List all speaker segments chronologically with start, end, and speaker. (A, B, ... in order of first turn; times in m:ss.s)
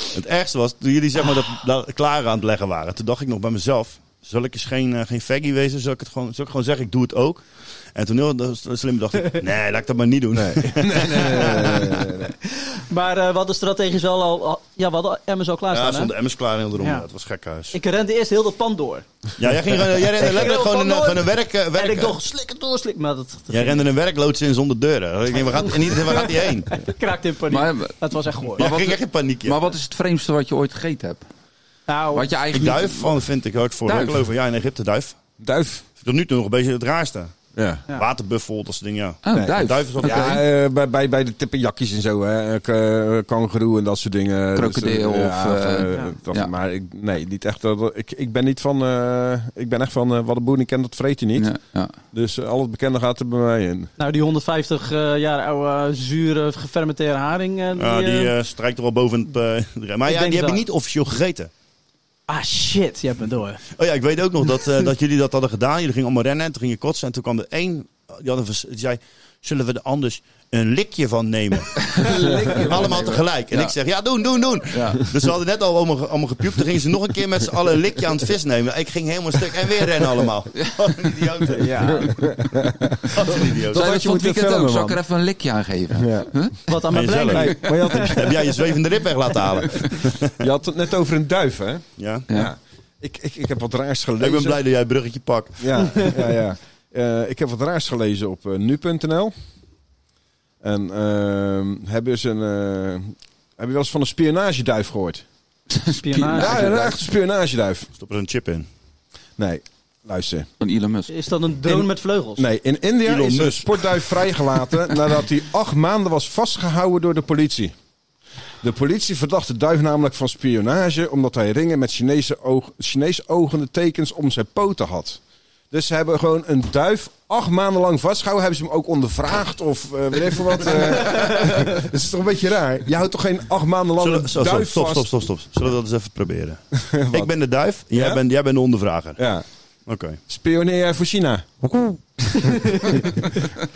0:00.1-0:12.1 A
0:10.3-0:12.3 B
0:12.5-0:16.1 C
0:15.7-0:17.8 A
0:16.8-0:17.1 C
0:17.7-0:19.1 C
0:19.4-0:22.2 A
0:20.1-0:23.8 C
0:23.5-0:26.8 A
0:25.6-0:28.7 C
0:27.5-0:28.0 D
0:28.5-0:31.2 D
0:28.6-0:29.6 A
0:31.9-0:32.3 C
0:32.1-0:33.2 D
0:32.5-0:35.2 A
0:33.9-0:34.2 D
0:35.4-0:35.8 B
0:36.0-0:37.3 A
0:37.6-0:37.8 B
0:37.9-0:40.4 A
0:39.2-0:40.4 D
0:39.4-0:51.5 B
0:44.6-0:46.5 D
0:51.4-0:51.9 D
0:52.1-0:53.9 B
0:54.0-0:58.3 C
0:57.8-1:01.5 A
1:00.1-1:00.6 C
1:02.3-1:03.6 C
1:03.7-1:22.1 A
1:12.0-1:13.2 B
1:12.8-1:13.8 D
1:14.7-1:15.0 D
1:21.6-1:22.1 C
1:22.0-1:23.1 B
1:23.1-1:23.8 A
1:23.7-1:25.0 B
1:23.7-1:26.6 D
1:26.0-1:26.3 B
1:26.7-1:27.7 C
1:26.9-1:30.3 A
1:27.3-1:28.4 B
1:30.4-1:34.6 B
1:32.0-1:32.3 A
1:34.2-1:36.0 A
1:35.6-1:39.3 B
1:40.6-1:45.2 B
1:45.7-1:47.0 D
1:46.0-1:46.6 C
1:46.4-1:47.9 B
1:48.0-1:48.7 A
1:49.4-1:50.5 B
1:50.6-1:51.1 D
1:51.1-1:52.4 C
1:51.7-1:57.7 B
1:53.0-1:54.0 A
1:58.6-2:05.2 B
2:05.7-2:15.1 B
2:14.0-2:19.2 A
2:16.9-2:17.3 B
2:17.9-2:18.2 B
2:19.2-2:19.4 B
2:19.9-2:20.2 A
2:20.3-2:23.5 B